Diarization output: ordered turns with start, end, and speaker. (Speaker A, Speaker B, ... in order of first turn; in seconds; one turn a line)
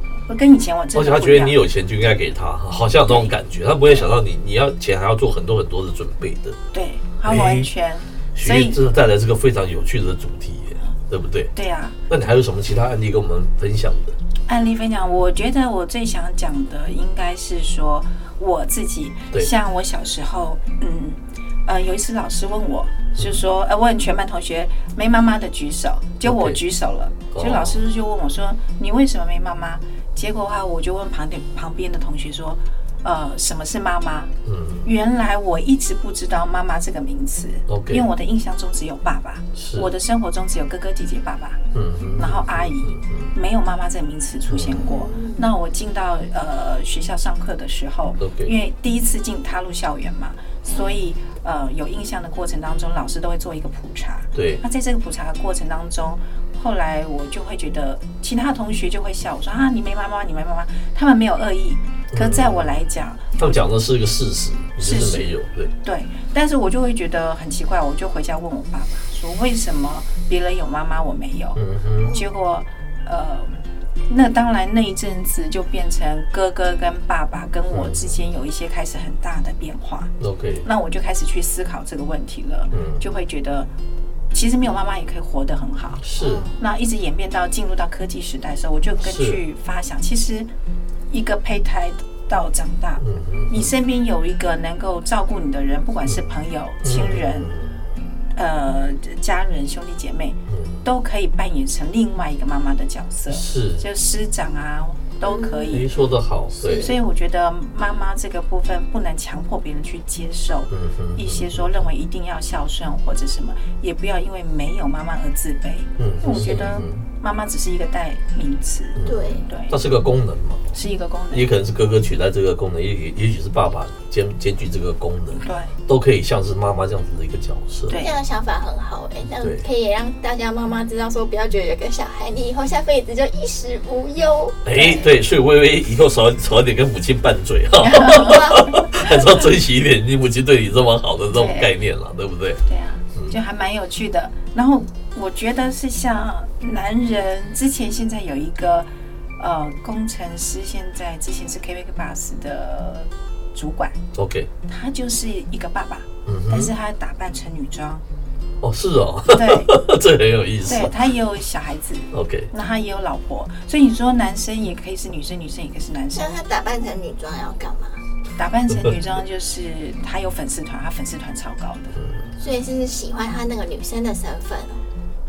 Speaker A: 0.3-1.6
Speaker B: 0.9-6.6
Speaker A: 3.1-3.3
Speaker A: 6.7-8.8
Speaker B: 7.2-7.7
Speaker B: 8.3-11.5
Speaker A: 11.5-12.0
Speaker B: 12.1-14.2
Speaker A: 14.5-34.3
Speaker B: 23.1-23.4
Speaker B: 26.2-26.6
Speaker B: 27.3-27.8
Speaker B: 34.4-34.8
Speaker A: 34.8-41.6
Speaker B: 37.7-38.1
Speaker B: 39.5-39.9
Speaker B: 41.7-43.3
Speaker A: 42.2-63.6
Speaker B: 44.5-44.9
Speaker C: 44.8-45.5
Speaker B: 48.2-48.5
Speaker B: 54.3-54.6
Speaker B: 62.1-62.8
Speaker B: 63.4-65.7
Speaker A: 64.8-65.3
Speaker A: 65.8-80.1
Speaker B: 71.5-72.2
Speaker B: 77.7-78.2
Speaker B: 80.2-80.7
Speaker A: 80.6-83.7
Speaker B: 82.7-83.0
Speaker A: 84.3-86.0
Speaker B: 86.0-86.5
Speaker C: 86.2-86.6
Speaker A: 86.6-90.5
Speaker B: 89.0-89.4
Speaker A: 91.1-97.5
Speaker B: 93.0-93.7
Speaker B: 96.0-97.8
Speaker A: 98.3-105.9
Speaker B: 100.5-100.8
Speaker B: 103.3-103.8
Speaker C: 105.2-105.7
Speaker B: 105.7-106.9
Speaker C: 106.6-106.9
Speaker A: 106.7-119.8
Speaker B: 110.7-111.8
Speaker B: 116.0-117.0
Speaker B: 119.0-120.7
Speaker C: 119.0-119.5
Speaker A: 120.7-121.5
Speaker B: 121.3-128.0
Speaker A: 125.4-125.7
Speaker A: 127.9-128.1
Speaker C: 127.9-134.6
Speaker B: 129.4-129.6
Speaker B: 134.6-142.6
Speaker A: 134.7-135.1
Speaker A: 137.8-139.2
Speaker C: 138.1-138.7
Speaker A: 141.3-141.7
Speaker A: 142.7-148.9
Speaker A: 149.4-154.0
Speaker B: 154.1-154.5
Speaker A: 154.7-158.0
Speaker B: 156.2-156.7
Speaker B: 158.6-160.9
Speaker A: 159.3-159.8
Speaker A: 160.6-166.4
Speaker B: 162.1-162.5
Speaker C: 166.1-168.0
Speaker A: 168.4-171.9
Speaker B: 171.9-172.3
Speaker C: 172.4-174.8